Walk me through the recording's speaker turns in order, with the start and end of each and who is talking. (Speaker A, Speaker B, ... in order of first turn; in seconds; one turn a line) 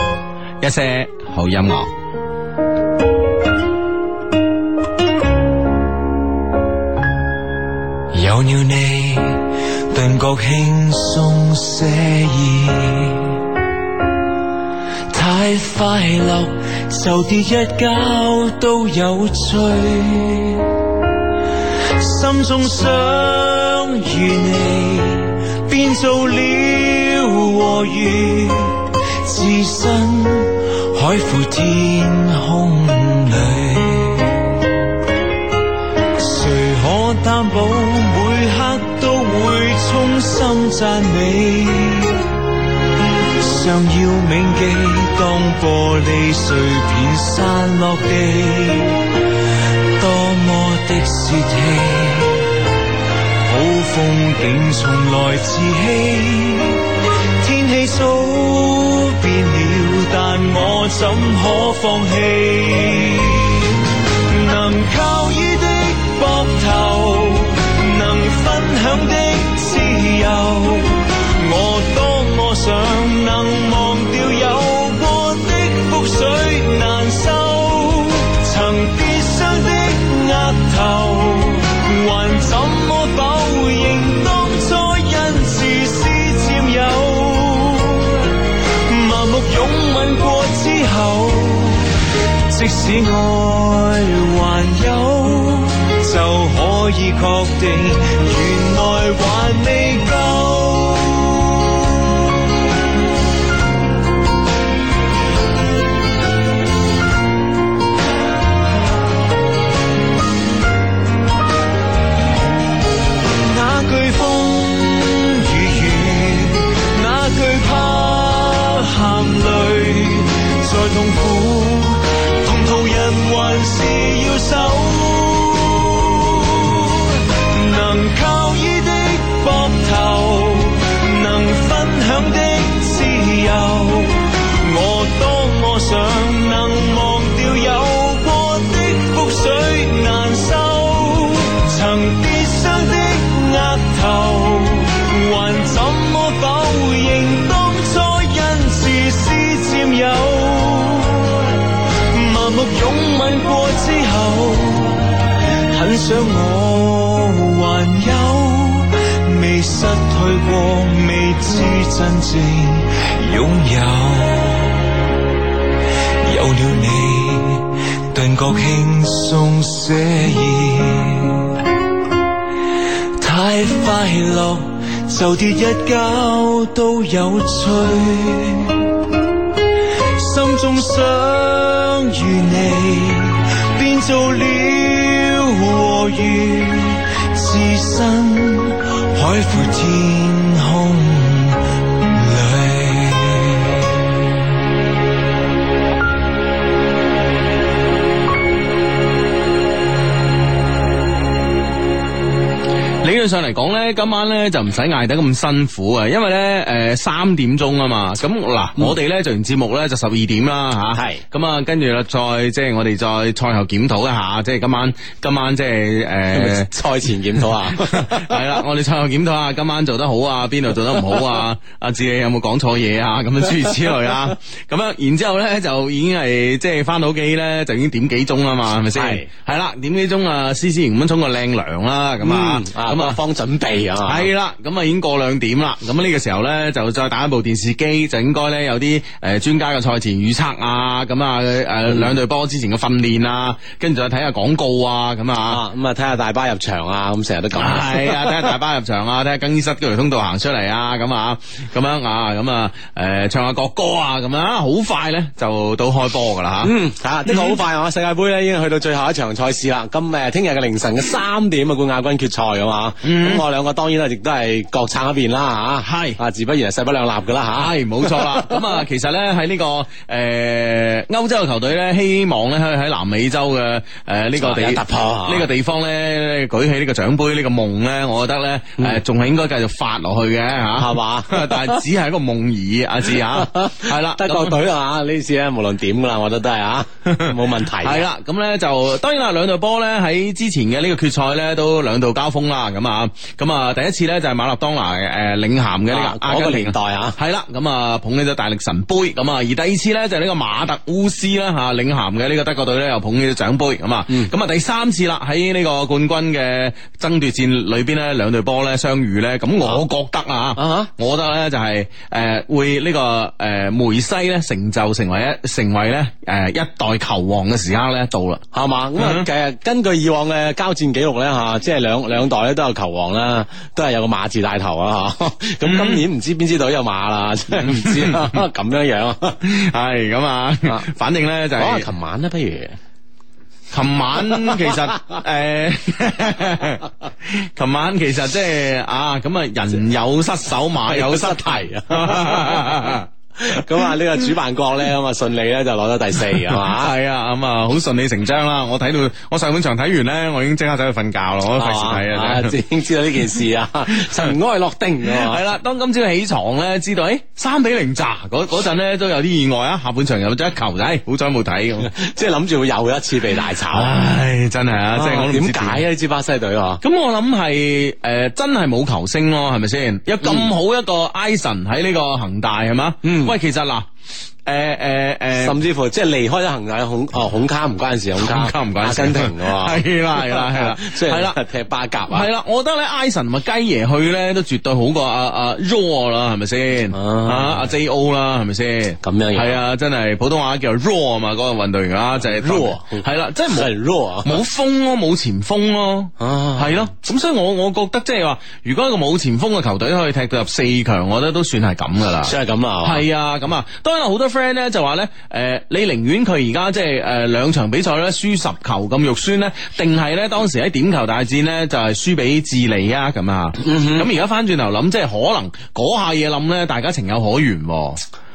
Speaker A: 0.6-1.9
Speaker B: 8.1-13.4
Speaker B: 15.1-20.7
Speaker B: 21.8-34.6
Speaker B: 36.2-42.3
Speaker B: 43.3-49.1
Speaker B: 50.0-52.7
Speaker B: 53.4-92.0
Speaker B: 92.5-101.8
Speaker B: 113.3-155.1
Speaker B: 155.7-164.9
Speaker B: 166.2-171.6
Speaker B: 173.2-178.9
Speaker B: 180.2-194.1
Speaker A: 203.0-216.7
Speaker C: 210.9-211.2
Speaker C: 216.3-218.4
Speaker A: 217.7-233.2
Speaker C: 228.9-229.2
Speaker C: 232.2-234.3
Speaker A: 234.0-245.6
Speaker C: 245.5-248.4
Speaker A: 247.5-256.7
Speaker C: 256.6-268.8
Speaker A: 257.3-257.6
Speaker A: 263.0-263.4
Speaker A: 265.8-266.2
Speaker A: 267.5-284.6
Speaker C: 274.4-275.5
Speaker C: 280.8-281.8
Speaker C: 283.1-288.1
Speaker A: 287.1-318.4
Speaker C: 295.9-297.2
Speaker C: 310.6-310.9
Speaker C: 318.5-329.4
Speaker A: 318.9-319.3
Speaker A: 325.6-326.0
Speaker A: 327.6-328.4
Speaker A: 329.4-331.9
Speaker C: 331.6-332.8
Speaker A: 333.7-343.6
Speaker C: 334.3-334.8
Speaker C: 340.8-346.9
Speaker A: 346.4-352.6
Speaker C: 351.6-355.4
Speaker A: 353.9-354.3
Speaker A: 355.1-361.9
Speaker C: 361.8-363.9
Speaker A: 363.7-365.8
Speaker C: 364.9-366.8
Speaker A: 366.8-373.9
Speaker C: 370.2-370.5
Speaker C: 373.0-373.3
Speaker A: 374.4-375.6
Speaker C: 375.4-382.3
Speaker A: 378.2-381.4
Speaker A: 382.1-418.0
Speaker C: 386.9-387.7
Speaker C: 389.0-389.6
Speaker C: 392.2-394.4
Speaker C: 396.2-396.9
Speaker C: 402.2-403.0
Speaker C: 413.6-414.1